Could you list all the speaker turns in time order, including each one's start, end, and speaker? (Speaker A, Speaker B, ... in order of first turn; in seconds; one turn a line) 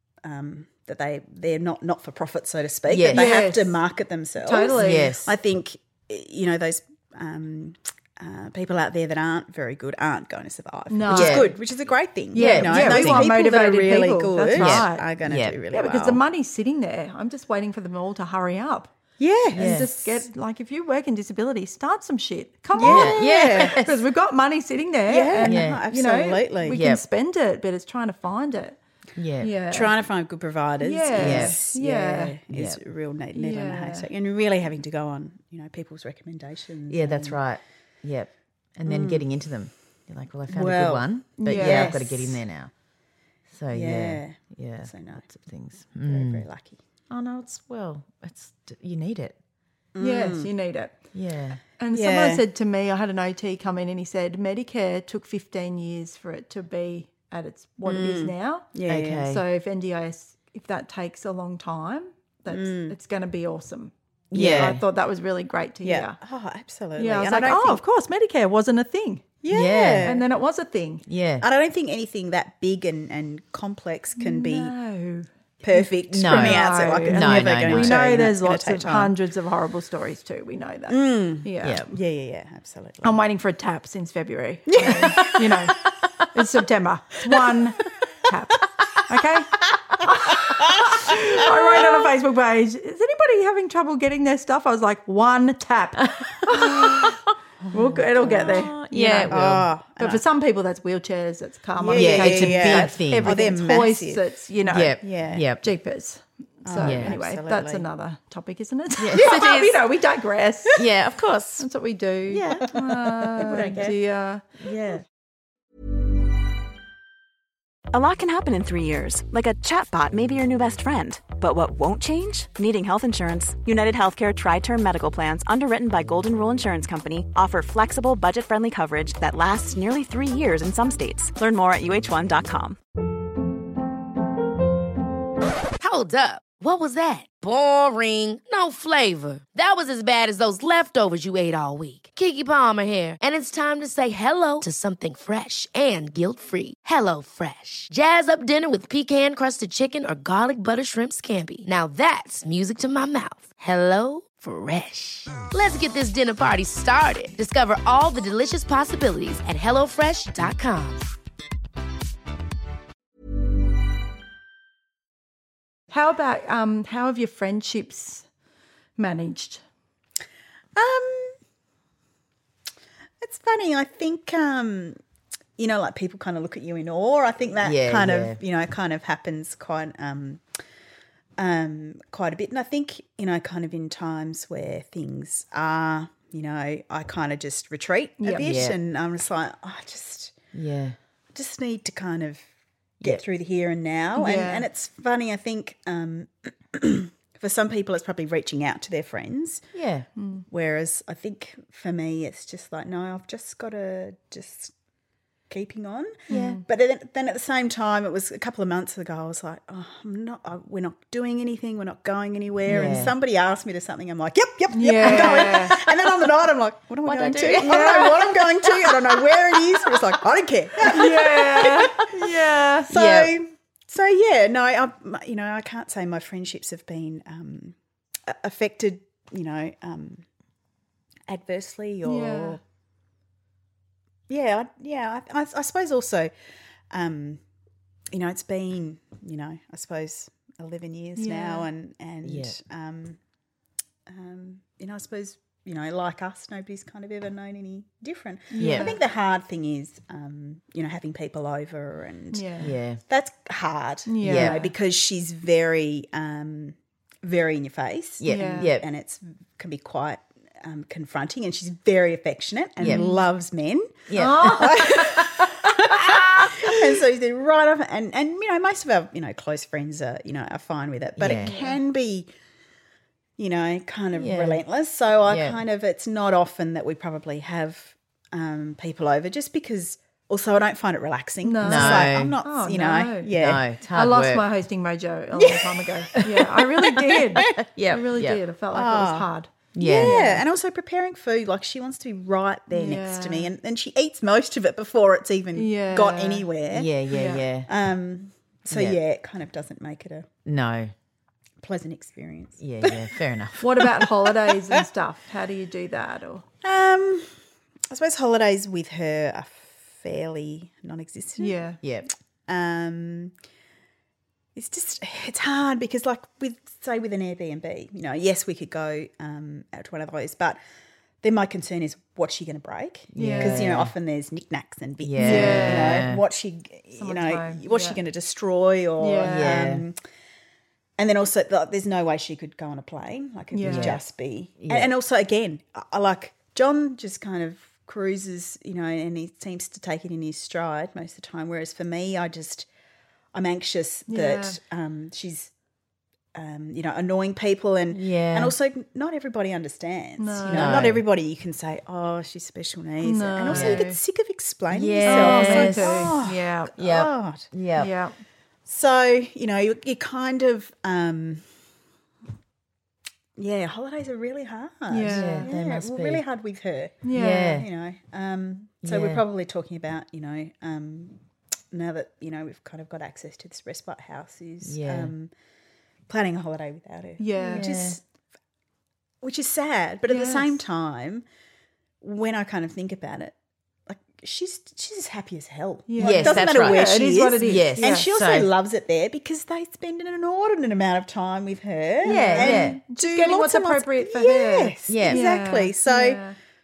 Speaker A: 0.2-16.2
Speaker B: 2.9-3.5
Speaker C: 3.1-3.8
Speaker C: 4.4-5.2
Speaker B: 4.8-5.3
Speaker C: 10.9-11.6
Speaker B: 11.1-11.6
Speaker C: 12.3-15.1
Speaker B: 12.3-13.3
Speaker B: 14.5-15.6
Speaker C: 15.7-18.9
Speaker A: 19.2-20.2
Speaker B: 19.5-19.9
Speaker C: 19.6-28.8
Speaker A: 22.7-23.8
Speaker B: 22.8-24.0
Speaker A: 25.1-26.8
Speaker B: 25.4-25.8
Speaker B: 26.7-27.0
Speaker B: 29.1-29.5
Speaker C: 29.4-29.9
Speaker A: 29.7-37.4
Speaker C: 30.8-32.4
Speaker B: 31.1-31.6
Speaker B: 32.5-32.8
Speaker C: 33.3-34.1
Speaker B: 36.9-42.7
Speaker A: 38.9-39.2
Speaker A: 40.5-42.4
Speaker C: 41.4-42.0
Speaker B: 43.5-46.5
Speaker A: 43.7-45.2
Speaker A: 45.9-46.8
Speaker B: 47.1-49.4
Speaker A: 49.9-50.5
Speaker C: 50.0-50.9
Speaker B: 51.1-51.6
Speaker C: 51.8-58.7
Speaker A: 51.9-52.4
Speaker A: 57.9-59.3
Speaker B: 58.9-59.4
Speaker C: 59.3-66.2
Speaker A: 62.5-63.0
Speaker B: 64.3-64.8
Speaker A: 64.3-64.8
Speaker A: 65.8-67.8
Speaker C: 67.0-69.2
Speaker A: 69.4-70.2
Speaker B: 69.5-70.1
Speaker C: 70.0-71.0
Speaker B: 71.0-71.5
Speaker A: 71.4-74.7
Speaker C: 74.2-81.8
Speaker A: 75.6-79.1
Speaker B: 76.1-78.2
Speaker A: 80.9-83.2
Speaker B: 81.6-81.9
Speaker C: 83.0-85.8
Speaker A: 84.7-85.4
Speaker B: 84.9-85.3
Speaker C: 86.3-97.2
Speaker B: 96.0-97.2
Speaker A: 97.7-100.2
Speaker C: 97.7-99.3
Speaker B: 98.2-99.7
Speaker C: 100.0-110.8
Speaker A: 101.8-104.3
Speaker B: 101.9-103.4
Speaker B: 104.7-105.6
Speaker A: 104.8-105.4
Speaker A: 106.6-107.9
Speaker B: 106.8-107.1
Speaker B: 109.0-109.8
Speaker A: 109.2-109.4
Speaker B: 110.7-111.7
Speaker C: 111.6-114.4
Speaker B: 112.3-113.9
Speaker A: 113.4-113.9
Speaker B: 114.6-115.0
Speaker D: 117.9-132.8
Speaker E: 135.8-161.1
Speaker C: 165.9-168.2
Speaker C: 169.0-169.6
Speaker A: 170.7-171.3
Speaker A: 173.2-175.0
Speaker A: 175.6-180.4
Speaker B: 177.6-178.4
Speaker A: 181.4-190.4
Speaker C: 188.2-188.6
Speaker B: 188.4-188.8
Speaker B: 190.5-190.9
Speaker A: 191.3-192.4
Speaker A: 193.0-199.6
Speaker C: 194.2-194.6
Speaker B: 199.7-200.1
Speaker C: 200.2-200.4
Speaker A: 200.5-204.7
Speaker A: 205.5-222.2
Speaker C: 206.3-206.6
Speaker B: 206.3-206.6
Speaker B: 212.6-213.2
Speaker C: 212.7-213.0
Speaker C: 214.7-215.8
Speaker B: 215.0-215.6
Speaker B: 217.0-218.7
Speaker C: 217.5-218.2
Speaker C: 220.8-222.9
Speaker A: 222.9-230.2
Speaker B: 222.9-223.3
Speaker A: 231.3-232.6
Speaker C: 232.0-232.6
Speaker A: 234.3-236.3
Speaker A: 236.9-237.4
Speaker A: 238.1-243.2
Speaker C: 241.2-241.7
Speaker B: 242.2-242.6
Speaker A: 244.1-272.3
Speaker C: 248.5-249.0
Speaker B: 248.6-248.9
Speaker C: 252.3-252.7
Speaker B: 252.6-253.0
Speaker C: 254.1-254.7
Speaker B: 254.2-254.6
Speaker B: 258.2-258.9
Speaker C: 258.3-258.7
Speaker B: 262.8-263.1
Speaker C: 262.9-263.2
Speaker B: 264.1-266.8
Speaker C: 264.1-264.9
Speaker B: 271.2-271.6
Speaker C: 271.3-271.8
Speaker A: 273.4-283.6
Speaker B: 274.1-274.6
Speaker B: 275.2-275.6
Speaker C: 281.4-283.3
Speaker B: 281.6-282.4
Speaker B: 283.3-284.4
Speaker C: 283.9-290.4
Speaker A: 285.3-287.5
Speaker B: 287.4-288.4
Speaker A: 288.7-289.3
Speaker B: 289.7-290.4
Speaker A: 289.8-296.9
Speaker C: 292.7-293.5
Speaker C: 295.5-296.5
Speaker B: 296.7-297.7
Speaker C: 297.1-297.4
Speaker A: 297.7-300.3
Speaker B: 298.7-299.0
Speaker B: 300.4-300.9
Speaker A: 301.6-303.1
Speaker B: 302.6-303.9
Speaker C: 303.6-306.4
Speaker A: 306.6-307.3
Speaker A: 307.9-311.6
Speaker C: 311.4-311.8
Speaker B: 311.8-312.1
Speaker A: 312.5-313.3
Speaker A: 314.5-320.6
Speaker A: 321.2-330.0
Speaker B: 323.1-323.9
Speaker C: 323.1-323.7
Speaker B: 325.0-326.2
Speaker C: 325.2-326.1
Speaker C: 326.9-328.0
Speaker C: 329.0-329.6
Speaker B: 329.2-329.9
Speaker A: 331.0-342.7
Speaker C: 333.5-334.0
Speaker B: 333.6-334.0
Speaker B: 334.6-334.9
Speaker A: 343.3-345.5
Speaker C: 344.1-344.6
Speaker A: 346.3-357.5
Speaker B: 347.9-348.5
Speaker C: 350.2-350.9
Speaker B: 350.4-351.0
Speaker C: 353.0-354.0
Speaker B: 353.5-353.8
Speaker B: 354.7-356.2
Speaker C: 355.0-356.7
Speaker B: 356.8-357.9
Speaker C: 357.8-358.1
Speaker A: 358.6-361.4
Speaker A: 363.4-371.2
Speaker C: 364.9-365.5
Speaker B: 365.0-366.2
Speaker C: 367.0-367.6
Speaker B: 367.1-367.7
Speaker B: 368.8-369.2
Speaker A: 371.7-375.3
Speaker B: 374.6-375.1
Speaker A: 376.1-378.0
Speaker C: 377.2-377.7
Speaker B: 377.4-378.0
Speaker A: 379.2-381.2
Speaker C: 380.1-380.6
Speaker A: 382.0-383.3
Speaker A: 383.9-396.2
Speaker C: 385.9-388.1
Speaker B: 386.0-388.5
Speaker B: 392.0-392.8
Speaker C: 392.0-396.4
Speaker B: 394.9-395.3